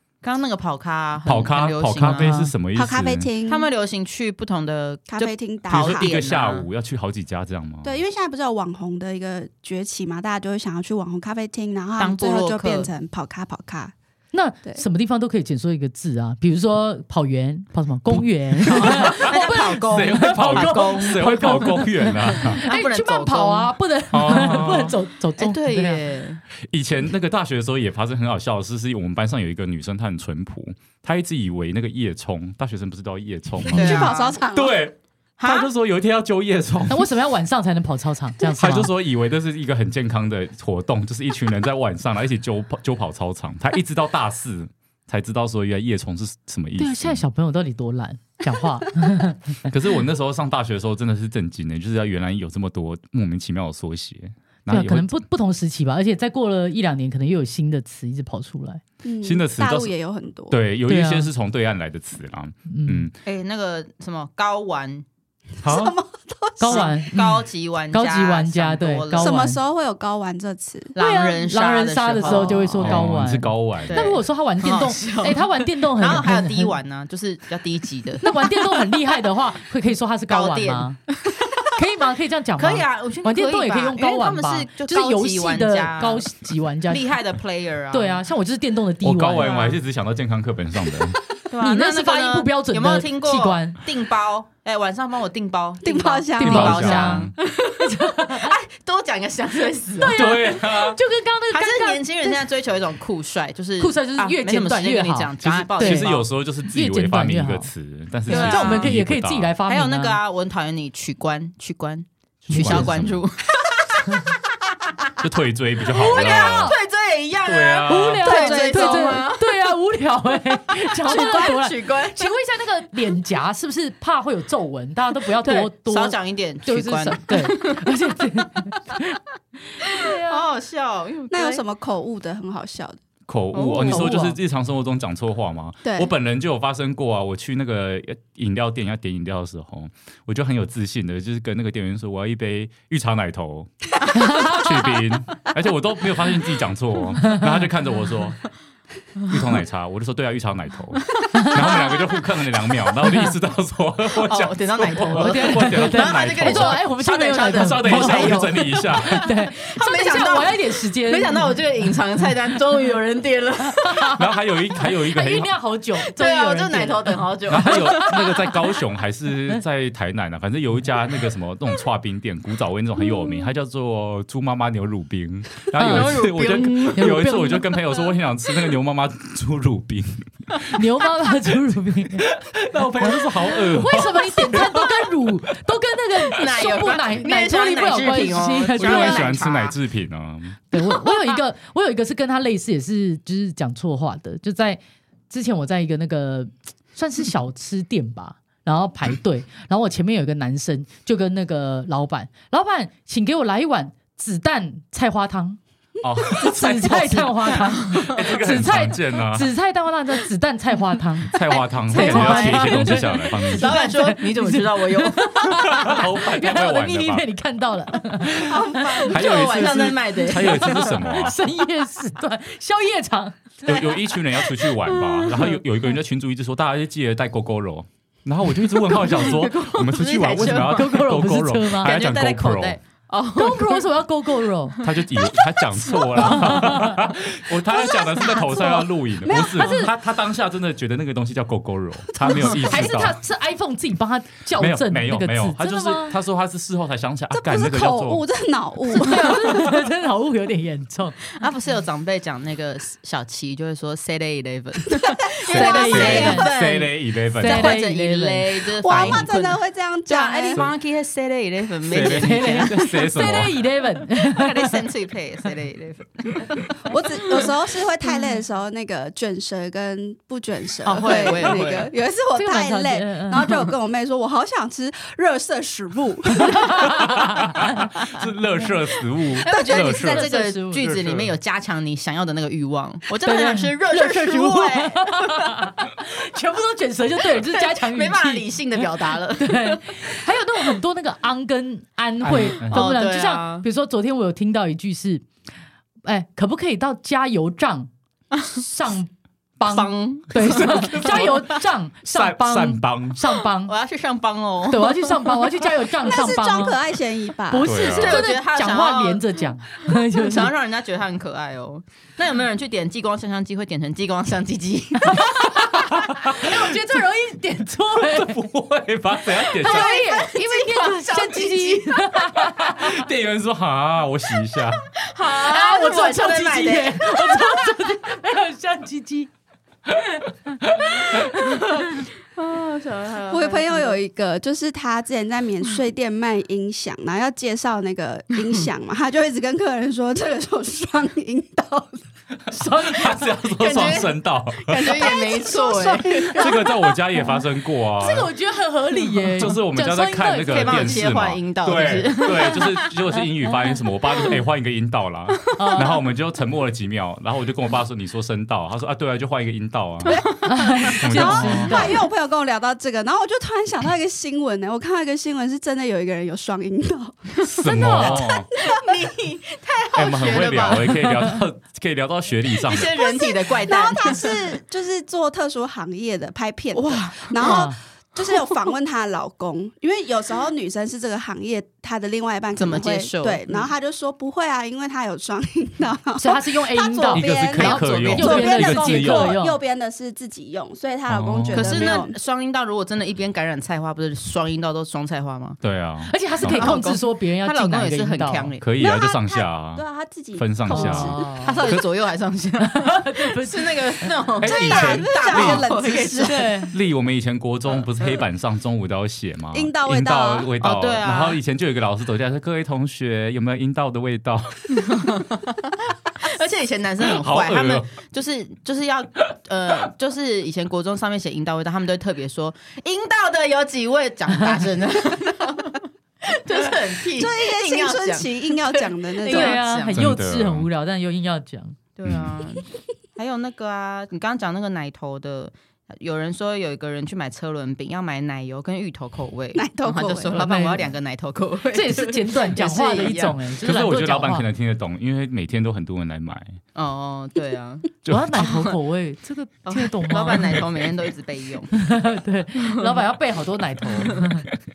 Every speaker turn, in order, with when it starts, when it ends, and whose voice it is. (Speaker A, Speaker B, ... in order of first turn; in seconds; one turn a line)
Speaker A: 0.2-2.3
Speaker B: 1.2-3.3
Speaker C: 2.0-2.5
Speaker D: 2.7-3.7
Speaker A: 3.5-6.7
Speaker D: 5.1-6.1
Speaker B: 5.7-8.0
Speaker D: 7.8-13.9
Speaker A: 12.0-12.9
Speaker C: 14.3-26.0
Speaker B: 18.2-22.6
Speaker A: 18.6-21.7
Speaker A: 22.5-23.8
Speaker B: 24.1-25.0
Speaker A: 24.3-26.4
Speaker B: 26.6-37.1
Speaker D: 33.7-34.8
Speaker A: 33.7-34.4
Speaker A: 35.4-35.7
Speaker C: 36.9-38.9
Speaker B: 38.5-47.2
Speaker C: 46.8-49.6
Speaker B: 49.7-55.1
Speaker C: 54.7-58.8
Speaker D: 59.0-60.6
Speaker B: 59.2-59.9
Speaker B: 60.5-63.2
Speaker C: 60.9-61.3
Speaker C: 62.7-63.1
Speaker A: 63.2-65.0
Speaker D: 65.6-66.9
Speaker B: 65.6-66.0
Speaker C: 66.6-67.2
Speaker A: 66.7-69.4
Speaker C: 67.9-69.6
Speaker D: 69.2-71.0
Speaker A: 70.9-73.1
Speaker C: 71.0-76.8
Speaker B: 72.8-74.0
Speaker A: 73.9-78.9
Speaker C: 78.2-81.0
Speaker A: 80.3-81.6
Speaker C: 81.7-87.1
Speaker A: 82.6-88.2
Speaker C: 87.9-89.7
Speaker B: 89.0-91.2
Speaker A: 89.4-89.8
Speaker A: 91.5-100.3
Speaker C: 91.6-93.8
Speaker D: 95.8-96.8
Speaker C: 96.4-98.5
Speaker B: 96.4-97.3
Speaker C: 100.0-102.4
Speaker B: 100.2-101.0
Speaker A: 101.5-106.2
Speaker C: 103.8-106.1
Speaker B: 105.4-109.5
Speaker C: 106.7-107.7
Speaker A: 108.3-109.0
Speaker C: 108.3-110.2
Speaker A: 109.7-114.1
Speaker B: 112.5-113.2
Speaker C: 112.5-112.9
Speaker B: 115.2-116.7
Speaker C: 115.9-116.8
Speaker A: 116.1-119.6
Speaker B: 117.5-119.1
Speaker C: 117.9-129.2
Speaker A: 120.8-122.3
Speaker A: 125.3-128.0
Speaker C: 129.8-130.4
Speaker A: 129.9-131.6
Speaker D: 131.3-133.0
Speaker B: 133.3-148.4
Speaker A: 133.5-134.2
Speaker C: 133.8-134.4
Speaker D: 135.8-136.1
Speaker C: 144.2-144.7
Speaker B: 149.3-156.8
Speaker A: 151.2-152.0
Speaker C: 153.1-153.3
Speaker A: 154.2-164.1
Speaker C: 155.1-161.5
Speaker B: 157.4-159.3
Speaker C: 163.6-164.2
Speaker B: 164.1-165.5
Speaker C: 164.8-168.5
Speaker A: 166.2-168.5
Speaker B: 167.5-180.7
Speaker C: 175.8-176.4
Speaker A: 175.8-177.1
Speaker C: 176.9-177.7
Speaker C: 180.7-182.3
Speaker B: 182.2-184.8
Speaker C: 183.7-189.3
Speaker A: 186.3-189.8
Speaker B: 188.8-190.6
Speaker C: 190.7-205.6
Speaker A: 191.1-191.3
Speaker B: 206.0-209.5
Speaker C: 206.3-219.3
Speaker B: 211.3-213.8
Speaker A: 211.5-215.8
Speaker B: 215.8-217.2
Speaker A: 218.4-221.2
Speaker B: 218.4-221.4
Speaker C: 220.3-223.6
Speaker B: 223.7-232.8
Speaker A: 223.7-225.6
Speaker A: 228.8-231.0
Speaker C: 230.7-231.9
Speaker A: 231.8-233.8
Speaker C: 233.4-234.8
Speaker A: 234.8-236.6
Speaker B: 234.8-243.2
Speaker C: 236.2-237.0
Speaker D: 237.7-239.8
Speaker C: 239.5-239.9
Speaker D: 242.2-242.6
Speaker C: 242.6-246.2
Speaker B: 244.6-248.2
Speaker D: 247.3-249.7
Speaker C: 249.0-251.2
Speaker A: 251.4-262.8
Speaker D: 254.9-256.5
Speaker B: 255.5-257.8
Speaker C: 255.5-256.5
Speaker C: 257.4-258.5
Speaker D: 258.8-260.6
Speaker B: 261.9-263.6
Speaker C: 261.9-264.8
Speaker A: 264.1-267.5
Speaker D: 266.9-277.2
Speaker A: 270.8-271.9
Speaker C: 272.4-273.5
Speaker C: 276.6-277.6
Speaker B: 276.8-281.3
Speaker A: 279.3-285.7
Speaker D: 279.5-279.9
Speaker C: 280.0-280.9
Speaker C: 283.2-288.9
Speaker A: 287.3-290.0
Speaker C: 289.4-295.2
Speaker B: 292.2-292.9
Speaker A: 292.6-293.7
Speaker C: 296.1-297.9
Speaker C: 298.5-303.7
Speaker A: 299.7-301.4
Speaker B: 300.4-301.5
Speaker B: 302.1-303.2
Speaker A: 303.7-305.6
Speaker C: 304.7-306.8
Speaker D: 306.0-307.7
Speaker C: 307.5-310.5
Speaker B: 307.6-308.2
Speaker A: 307.8-315.5
Speaker C: 315.0-318.4
Speaker B: 315.9-316.5
Speaker B: 317.9-319.9
Speaker C: 319.6-323.0
Speaker A: 319.6-322.2
Speaker B: 322.6-324.9
Speaker A: 325.0-327.8
Speaker C: 325.4-329.3
Speaker B: 330.6-331.1
Speaker C: 331.0-331.9
Speaker A: 331.5-334.0
Speaker D: 333.3-342.1
Speaker A: 338.4-338.7
Speaker B: 342.5-345.0
Speaker C: 342.5-343.3
Speaker A: 343.5-346.4
Speaker D: 344.8-346.9
Speaker B: 346.3-348.3
Speaker C: 348.0-351.1
Speaker B: 349.4-360.2
Speaker A: 350.5-353.0
Speaker C: 355.6-355.9
Speaker D: 360.1-368.9
Speaker C: 360.4-362.0
Speaker B: 360.9-362.0
Speaker B: 367.4-368.5
Speaker C: 367.7-368.2
Speaker A: 368.6-371.1
Speaker B: 369.9-373.0
Speaker C: 371.0-371.3
Speaker A: 372.5-374.6
Speaker D: 372.9-392.1
Speaker A: 376.7-377.7
Speaker C: 377.4-377.8
Speaker A: 378.2-378.6
Speaker A: 382.6-383.7
Speaker C: 386.2-389.6
Speaker B: 387.1-389.4
Speaker A: 387.6-388.5
Speaker B: 391.1-392.0
Speaker A: 391.5-395.6
Speaker B: 395.6-396.7
Speaker C: 396.1-398.5
Speaker A: 396.4-398.6
Speaker B: 398.6-401.8
Speaker D: 398.8-401.3
Speaker C: 400.7-401.6
Speaker A: 401.2-406.5
Speaker C: 402.7-404.1
Speaker B: 404.4-405.7
Speaker D: 404.4-406.5
Speaker C: 406.2-406.7
Speaker B: 406.7-414.9
Speaker D: 409.5-410.5
Speaker A: 410.6-411.4
Speaker A: 414.8-430.0
Speaker B: 417.0-417.9
Speaker D: 427.1-429.6
Speaker C: 429.3-431.8
Speaker B: 429.9-430.7
Speaker A: 432.0-443.4
Speaker B: 432.1-432.4
Speaker D: 439.6-440.5
Speaker C: 440.3-440.9
Speaker C: 441.7-444.5
Speaker B: 443.6-446.6
Speaker A: 446.8-448.8
Speaker B: 448.0-448.4
Speaker C: 448.1-450.6
Speaker A: 449.7-451.8
Speaker C: 451.7-454.4
Speaker A: 452.6-453.0